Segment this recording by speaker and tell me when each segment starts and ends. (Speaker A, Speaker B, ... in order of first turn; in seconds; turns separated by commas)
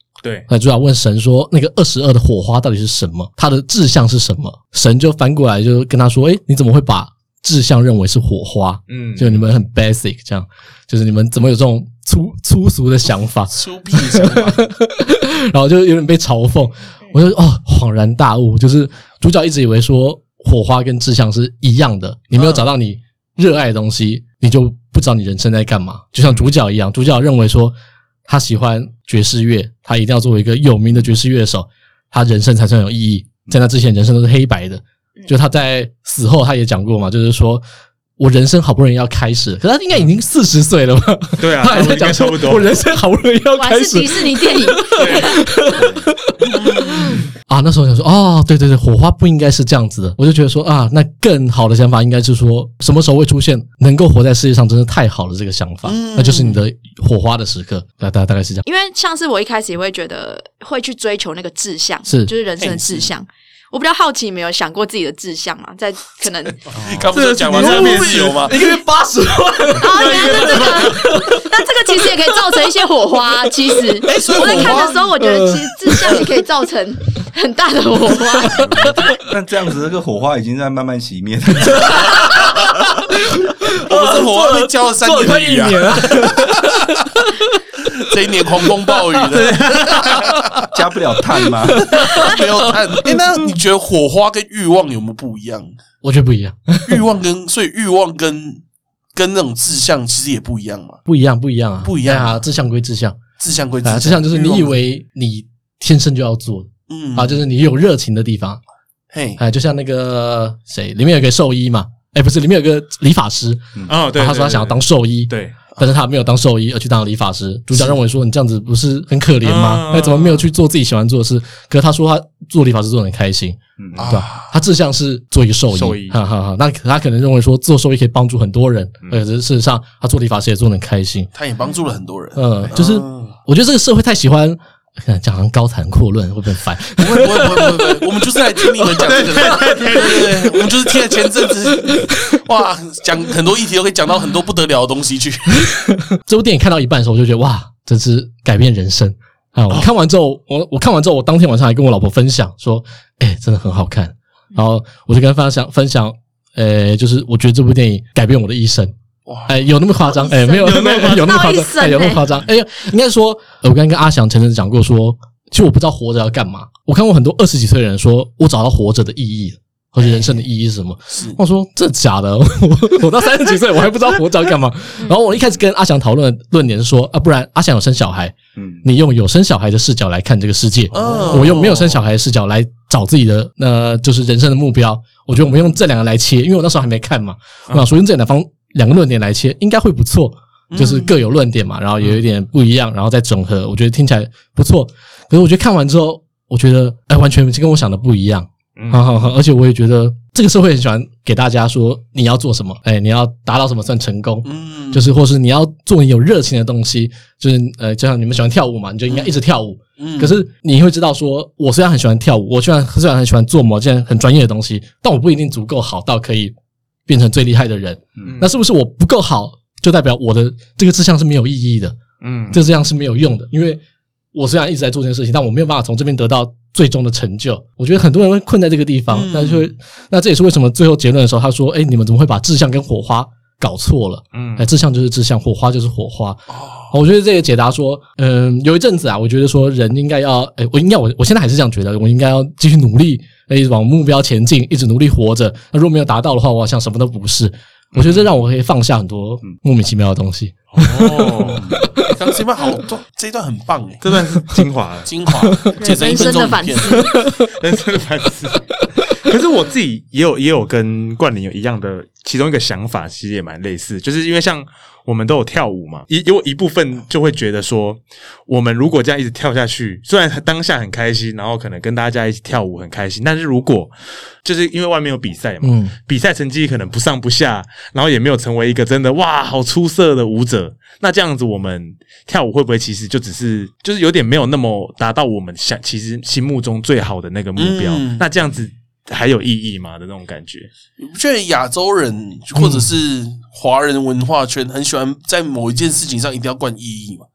Speaker A: 0.5-27.7, Speaker B: 8.9-9.4, Speaker C: 13.5-14.6, Speaker C: 22.4-22.7, Speaker B: 26.2-26.5, Speaker A: 28.3-37.6, Speaker A: 38.2-58.6, Speaker B: 41.4-42.7, Speaker D: 43.5-45.4, Speaker B: 45.0-45.4, Speaker E: 45.8-46.1, Speaker C: 55.9-56.6, Speaker D: 58.6-66.6, Speaker A: 62.0-62.3, Speaker C: 62.6-63.1, Speaker C: 66.7-68.7, Speaker B: 67.1-68.5, Speaker A: 67.5-71.5, Speaker D: 69.8-78.6, Speaker B: 69.8-71.1, Speaker A: 73.7-76.3, Speaker C: 74.1-75.0, Speaker A: 78.4-78.7, Speaker E: 78.5-82.5, Speaker A: 81.7-87.6, Speaker C: 83.8-86.9, Speaker C: 88.0-90.6, Speaker A: 88.7-89.2, Speaker B: 89.3-90.3, Speaker E: 90.7-92.0, Speaker A: 91.7-92.5, Speaker C: 91.8-95.7, Speaker A: 96.0-97.0, Speaker C: 96.9-98.6, Speaker C: 99.2-101.0, Speaker A: 101.1-103.2, Speaker C: 101.8-102.4, Speaker C: 103.4-104.8, Speaker A: 103.8-108.6, Speaker C: 106.9-107.4, Speaker C: 109.1-109.4, Speaker A: 109.4-131.3, Speaker B: 113.9-115.5, Speaker B: 119.4-120.5, Speaker E: 123.8-124.1, Speaker C: 124.0-124.5, Speaker B: 125.7-126.2, Speaker C: 131.3-133.3, Speaker A: 132.3-138.1, Speaker C: 137.0-145.7, Speaker A: 138.6-139.0, Speaker B: 139.0-140.6, Speaker A: 141.7-142.4, Speaker A: 145.6-158.9, Speaker C: 159.3-159.6, Speaker A: 159.5-216.6, Speaker D: 160.1-162.3, Speaker B: 160.5-161.4, Speaker C: 170.0-170.3, Speaker C: 171.1-171.4, Speaker E: 178.6-178.8, Speaker C: 180.9-181.9, Speaker B: 181.0-181.9, Speaker C: 190.7-191.2, Speaker B: 198.8-199.2, Speaker C: 204.4-205.1, Speaker C: 209.1-209.3, Speaker C: 210.0-210.4, Speaker A: 217.1-222.0, Speaker B: 218.2-218.5, Speaker B: 222.2-222.6, Speaker A: 222.5-223.8, Speaker A: 224.3-252.1, Speaker C: 229.1-229.7, Speaker B: 234.3-234.7, Speaker C: 236.5-236.9, Speaker B: 247.9-248.3, Speaker B: 250.7-251.7, Speaker E: 251.6-251.9, Speaker C: 252.1-254.1, Speaker B: 254.0-255.1, Speaker C: 255.1-257.0, Speaker A: 255.4-257.5, Speaker D: 255.8-257.1, Speaker B: 257.4-258.6, Speaker B: 259.2-290.7, Speaker A: 275.6-275.9, Speaker C: 287.6-288.3, Speaker C: 291.0-297.3, Speaker A: 292.6-292.9